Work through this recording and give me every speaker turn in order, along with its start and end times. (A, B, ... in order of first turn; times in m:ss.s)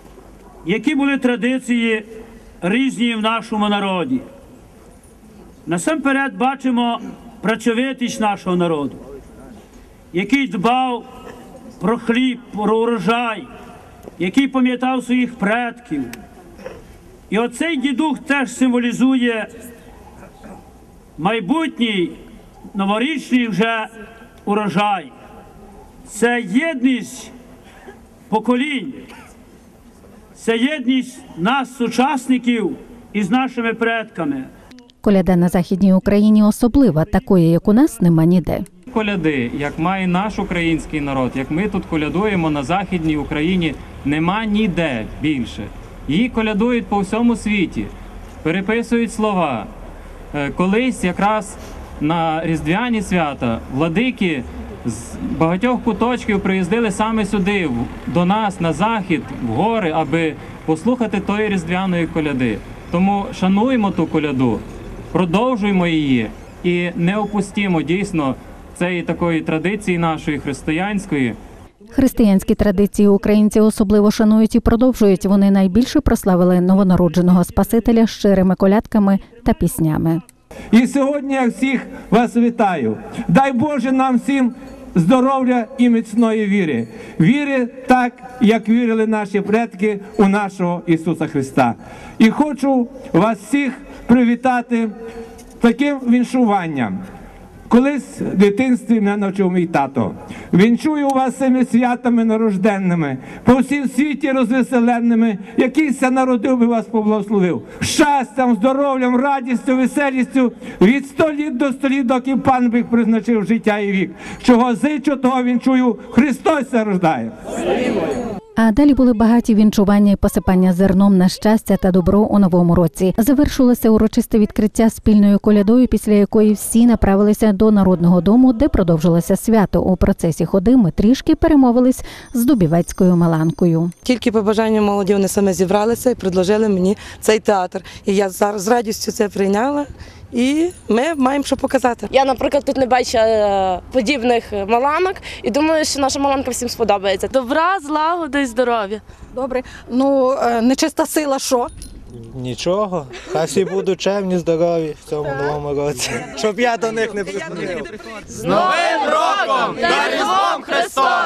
0:00.6-0:02.1 A
0:02.6-0:04.2 A
0:05.7-0:09.0 A
0:10.1-0:11.0 A
0:11.8-0:13.5 A
0:14.2-0:16.1 A
0:17.3-0:19.5 A
0:21.2-0:22.2 A
0:22.7-0:23.9 A
0:24.4-0:25.1 A
0:26.1-0:27.3 A
0:28.3-0:29.1 A
0:30.4-0:34.5 A
0:35.0-0:38.7 B
0:38.9-0:47.9 C
0:48.4-0:49.7 C
0:50.3-1:11.4 C
1:11.9-1:20.2 B
1:20.7-1:34.9 D
1:35.6-1:37.0 D
1:37.7-1:57.3 D
1:58.6-2:13.9 B
2:14.1-2:22.1 E
2:22.1-2:29.0 F
2:29.4-2:31.7 G
2:32.2-2:37.9 H